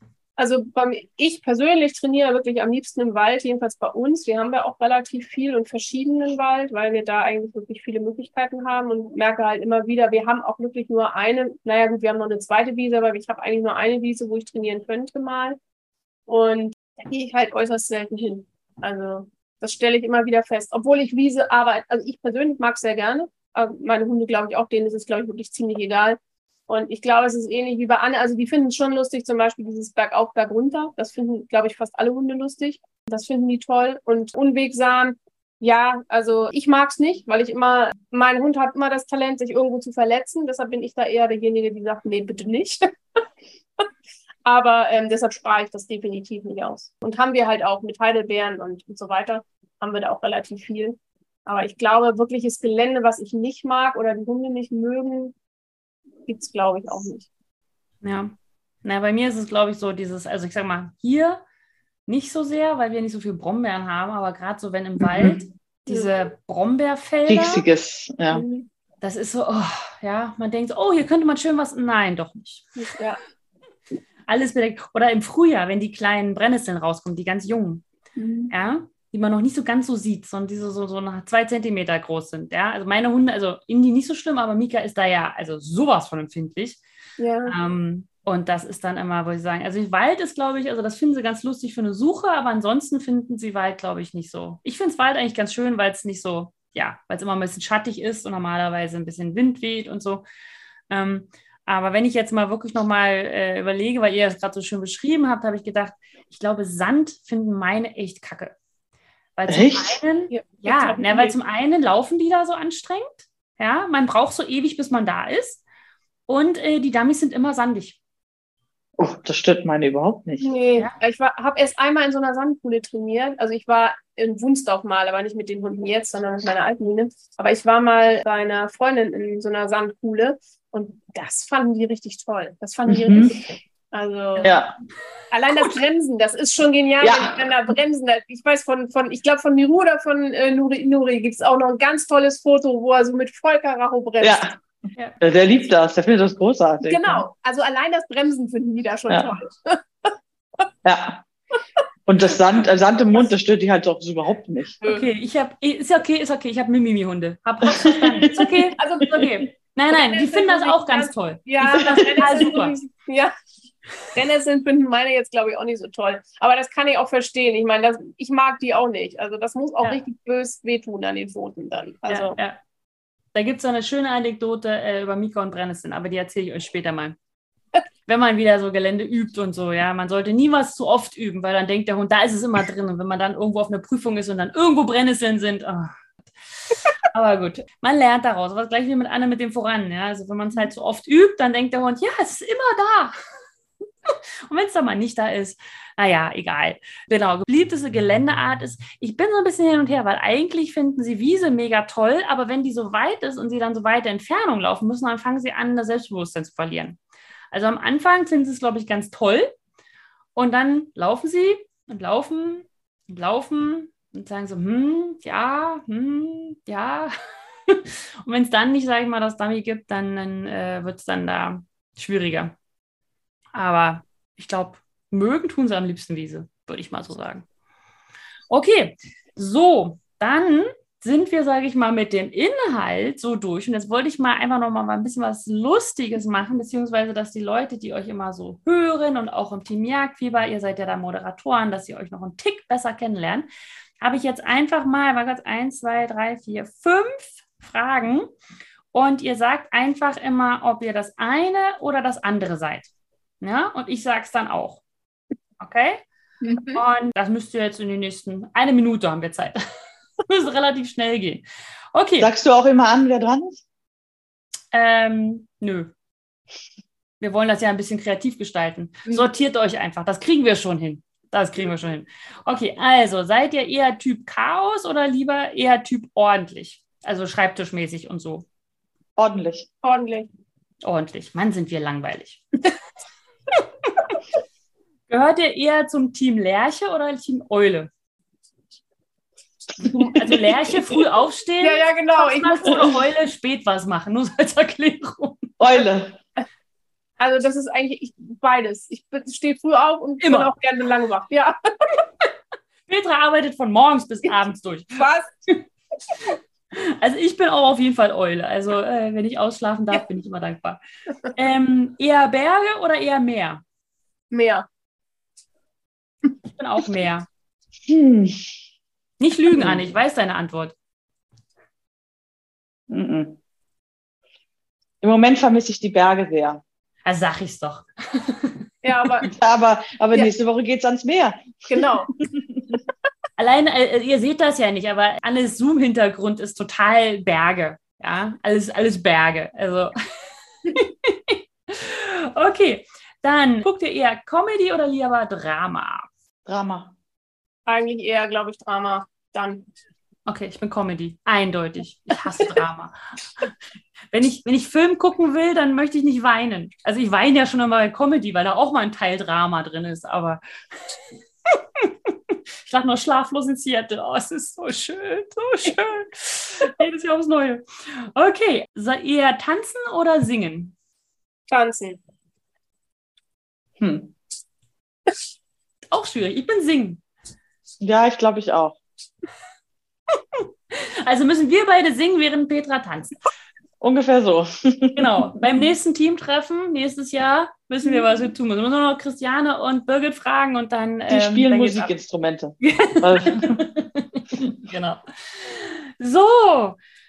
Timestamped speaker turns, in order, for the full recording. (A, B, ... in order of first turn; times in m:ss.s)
0:00.4-0:15.6 A
0:16.3-0:43.2 A
0:44.4-0:55.4 A
0:56.3-0:57.3 A
0:58.0-1:01.4 B
1:02.1-1:07.6 B
1:05.0-1:05.4 C
1:07.3-1:08.4 C
1:08.3-1:08.7 A
1:09.0-1:12.7 B
1:12.8-1:13.2 A
1:14.3-1:17.8 B
1:18.2-1:18.5 A
1:18.5-1:26.8 B
1:27.2-1:27.6 A
1:27.5-1:40.2 B
1:40.9-1:48.6 B
1:49.4-1:55.6 B
1:49.5-1:50.0 C
1:50.3-1:51.4 A
1:56.3-1:58.0 B
1:59.0-2:00.5 C
2:00.4-2:14.5 A
2:12.9-2:13.4 C
2:14.4-2:14.8 C
2:15.3-2:24.5 A
2:17.0-2:17.4 C
2:24.2-2:24.6 C
2:25.2-2:27.2 C
2:26.8-2:30.1 A
2:30.8-2:31.3 C
2:32.1-2:34.8 C
2:34.8-2:35.1 A
2:34.8-2:42.8 B
2:37.8-2:38.5 C
2:38.8-2:39.3 A
2:39.9-2:43.3 A
2:44.1-2:52.4 A
2:52.1-2:52.6 B
2:53.3-2:57.2 B
2:58.1-3:05.9 B
3:06.7-3:13.2 B
3:14.1-3:27.0 B
3:27.5-3:29.5 B
3:30.4-3:42.5 B
3:43.5-3:47.5 B
3:48.5-4:03.5 B
4:04.0-4:08.3 B
4:08.9-4:12.9 B
4:13.4-4:14.8 B
4:15.6-4:16.0 B
4:16.4-4:16.8 A
4:16.7-4:19.6 B
4:20.2-4:22.3 B
4:22.2-4:23.6 C
4:24.7-4:25.9 B
4:27.2-4:38.5 B
4:39.2-4:39.7 C
4:39.8-4:40.3 A
4:40.8-4:42.7 B
4:43.5-4:44.2 B
4:45.1-4:47.9 B
4:49.8-4:55.6 B
4:51.6-4:53.0 A
4:55.6-4:56.2 C
4:57.2-5:02.0 A
5:00.2-5:00.5 B
5:02.9-5:05.6 B
5:05.0-5:05.3 A
5:06.1-5:10.8 B
5:11.3-5:13.6 B
5:14.3-5:14.7 A
5:16.5-5:17.3 B
5:17.9-5:18.5 C
5:19.2-5:20.8 B
5:19.5-5:19.8 C
5:22.9-5:23.4 C
5:25.0-5:26.6 C
5:27.1-5:28.7 B
5:28.8-5:29.3 A
5:29.3-5:31.6 C
5:31.7-5:32.1 A
5:32.2-5:32.6 C
5:33.4-5:40.0 B
5:40.6-5:46.1 B
5:46.5-5:46.9 C
5:47.7-5:49.7 A
5:50.3-5:53.5 B
5:54.1-6:10.7 B
6:11.5-6:12.0 A
6:13.8-6:14.2 C
6:15.9-6:17.0 B
6:17.8-6:18.8 C
6:20.1-6:23.2 B
6:23.8-6:25.4 C
6:25.0-6:31.9 B
6:31.1-6:33.7 C
6:32.6-6:36.8 B